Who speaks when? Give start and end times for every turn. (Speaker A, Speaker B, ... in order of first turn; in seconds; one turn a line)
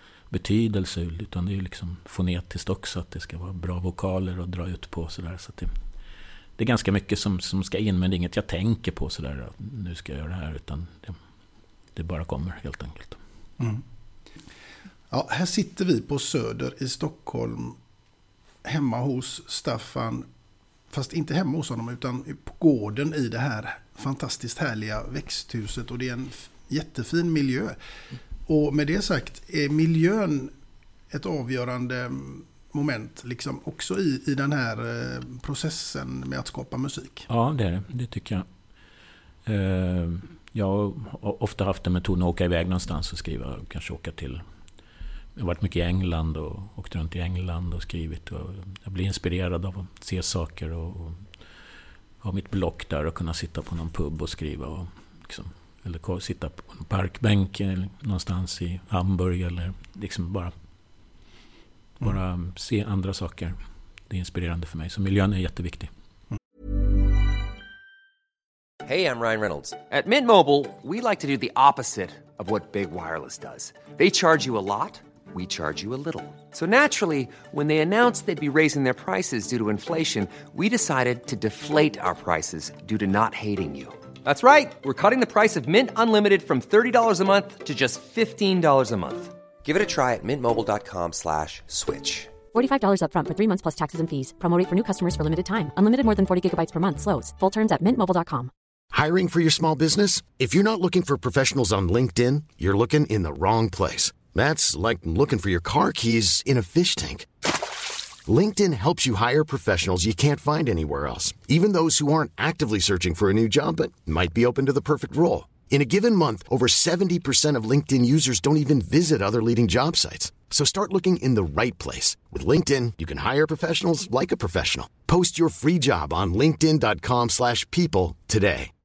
Speaker A: 0.3-5.7
Speaker A: 6.6-11.2
Speaker A: 11.9-13.2
Speaker B: 15.1-17.8
Speaker B: 18.6-20.3
Speaker B: 20.9-27.8
Speaker B: 28.5-30.5
Speaker B: 31.1-37.3
Speaker A: 37.3-38.5
Speaker A: 39.5-44.4
Speaker A: 45.4-51.3
Speaker A: 52.2-60.5
Speaker A: 62.0-63.6
Speaker A: 64.1-65.9
Speaker C: 68.8-92.4
Speaker D: 92.5-98.5
Speaker E: 98.9-107.3
Speaker E: 108.3-128.7